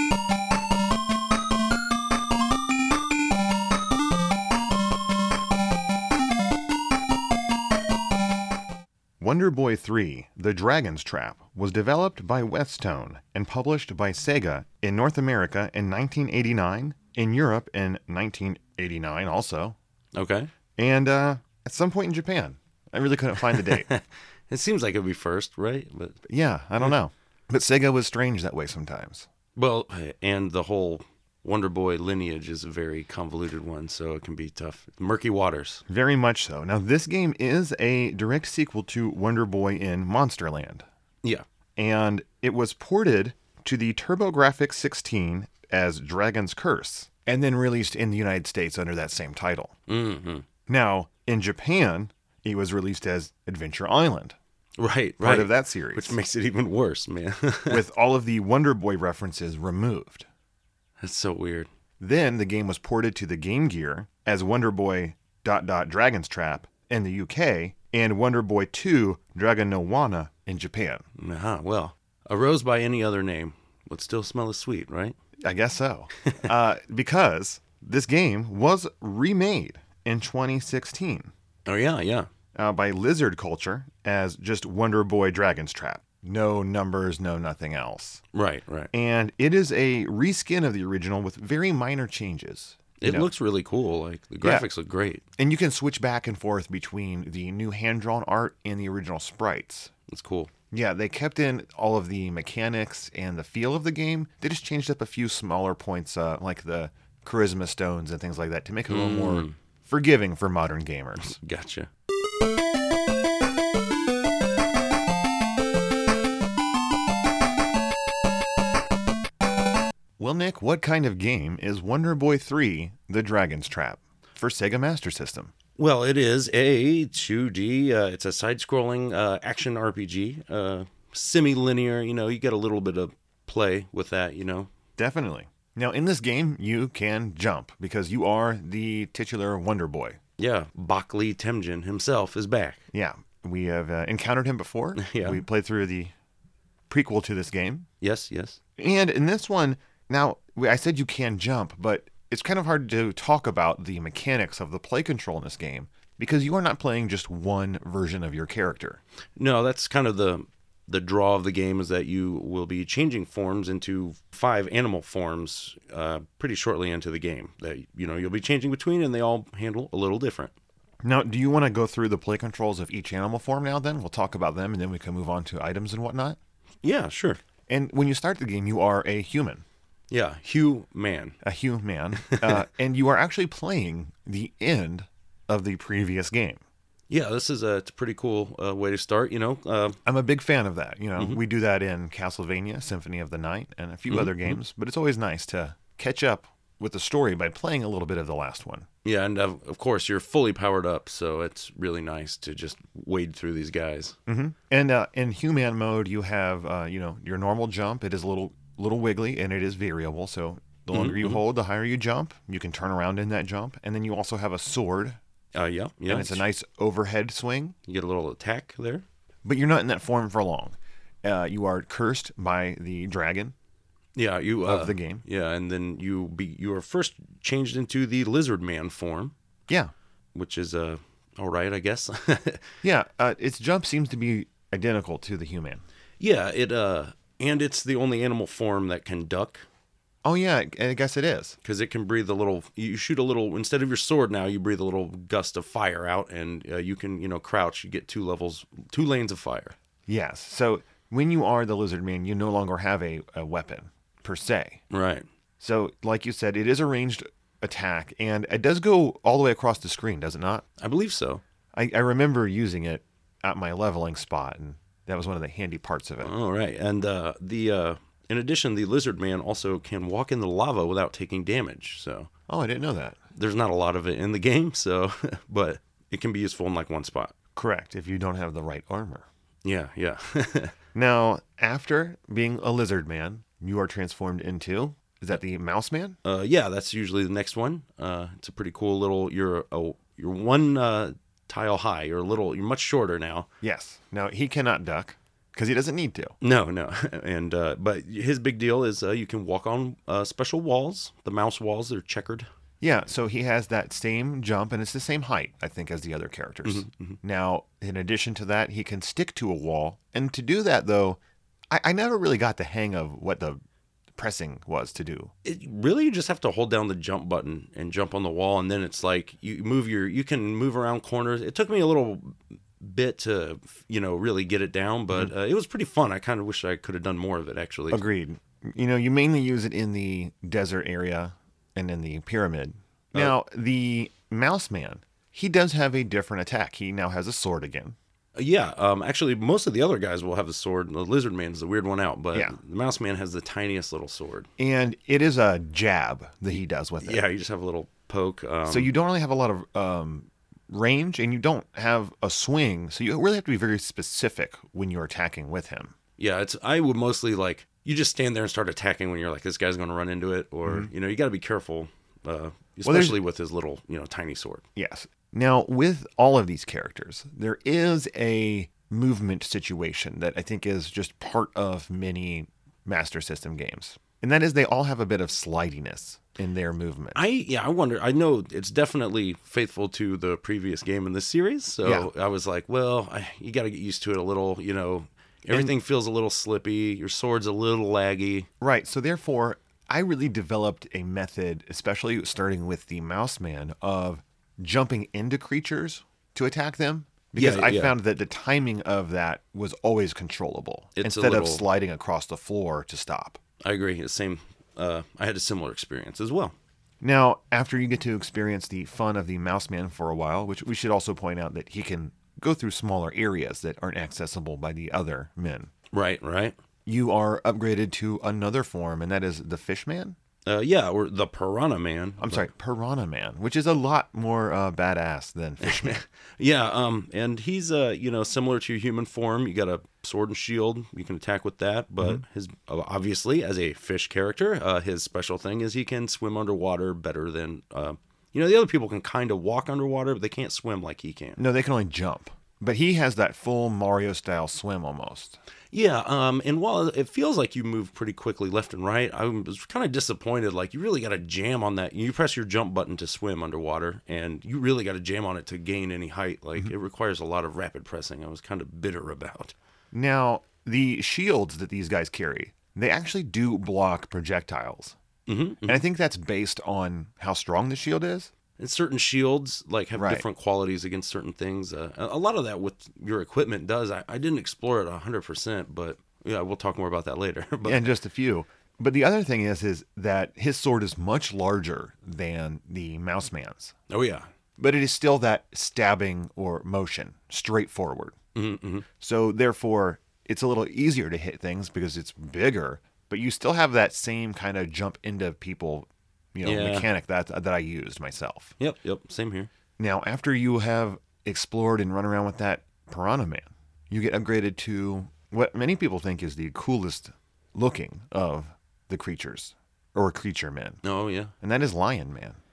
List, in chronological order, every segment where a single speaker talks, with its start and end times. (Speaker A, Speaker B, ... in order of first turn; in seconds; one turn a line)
Speaker A: 9.2-19.8
Speaker B: 20.1-20.5
Speaker A: 20.8-23.9
Speaker B: 23.4-26.2
Speaker A: 26.3-29.3
Speaker B: 29.6-35.8
Speaker A: 35.9-40.8
Speaker A: 41.8-49.8
Speaker B: 49.9-50.4
Speaker A: 50.7-54.3
Speaker B: 54.8-57.8
Speaker A: 55.2-56.2
Speaker A: 57.7-60.2
Speaker B: 61.0-61.7
Speaker A: 62.0-71.0
Speaker B: 71.2-75.2
Speaker A: 75.4-81.3
Speaker B: 76.2-76.5
Speaker B: 81.7-82.3
Speaker A: 82.5-88.2
Speaker B: 88.3-88.9
Speaker A: 88.9-93.3
Speaker B: 93.0-95.2
Speaker A: 95.4-99.9
Speaker B: 100.1-100.5
Speaker A: 100.7-111.4
Speaker B: 108.9-109.5
Speaker B: 111.2-111.9
Speaker A: 120.2-125.5
Speaker B: 125.8-134.7
Speaker A: 135.0-140.2
Speaker B: 140.4-142.8
Speaker A: 142.9-146.1
Speaker B: 144.9-145.4
Speaker A: 146.9-147.9
Speaker B: 148.0-148.6
Speaker A: 148.8-159.0
Speaker B: 159.4-170.5
Speaker A: 171.0-176.4
Speaker B: 176.8-177.4
Speaker A: 177.7-179.6
Speaker B: 180.1-181.4
Speaker A: 181.4-186.6
Speaker B: 182.2-182.6
Speaker B: 187.1-190.0
Speaker A: 190.0-198.9
Speaker B: 194.1-194.6
Speaker B: 199.0-204.2
Speaker A: 204.3-215.2
Speaker B: 210.9-211.4
Speaker B: 215.5-216.4
Speaker A: 216.1-217.7
Speaker B: 217.9-219.0
Speaker A: 219.4-223.5
Speaker B: 224.2-229.3
Speaker A: 224.6-225.2
Speaker B: 230.3-232.6
Speaker A: 232.8-235.8
Speaker B: 236.2-239.7
Speaker A: 240.2-241.6
Speaker B: 241.6-249.8
Speaker A: 250.1-254.8
Speaker B: 254.9-255.2
Speaker A: 255.6-260.6
Speaker B: 260.8-261.4
Speaker A: 261.7-266.3
Speaker B: 266.2-272.3
Speaker A: 272.5-273.2
Speaker B: 273.3-277.3
Speaker A: 277.6-279.3
Speaker B: 279.6-280.7
Speaker A: 280.9-286.2
Speaker B: 286.2-293.5
Speaker A: 293.6-296.3
Speaker B: 296.4-302.5
Speaker A: 302.8-311.2
Speaker B: 306.6-307.2
Speaker A: 311.7-313.6
Speaker A: 314.2-315.3
Speaker B: 315.4-328.0
Speaker A: 327.9-337.9
Speaker B: 338.4-344.5
Speaker A: 344.6-347.2
Speaker B: 347.0-348.9
Speaker A: 348.7-355.9
Speaker B: 356.2-364.6
Speaker A: 360.6-360.9
Speaker A: 362.8-363.2
Speaker A: 364.8-377.2
Speaker B: 377.1-388.5
Speaker A: 381.8-382.1
Speaker A: 388.6-403.4
Speaker B: 397.4-397.9
Speaker B: 400.9-401.6
Speaker B: 403.6-406.5
Speaker A: 407.0-415.7
Speaker B: 415.9-416.6
Speaker A: 416.9-420.2
Speaker B: 420.4-422.5
Speaker A: 422.2-426.0
Speaker B: 425.6-441.4
Speaker A: 441.4-445.4
Speaker B: 445.7-459.5
Speaker A: 459.9-465.0
Speaker B: 465.3-465.8
Speaker A: 465.6-468.3
Speaker B: 468.6-477.9
Speaker A: 469.9-470.2
Speaker A: 477.6-483.7
Speaker B: 483.9-484.3
Speaker A: 484.6-488.1
Speaker B: 488.3-488.8
Speaker A: 489.0-498.5
Speaker B: 496.4-496.9
Speaker B: 498.6-499.5
Speaker A: 499.8-510.8
Speaker B: 510.8-511.3
Speaker A: 511.4-512.4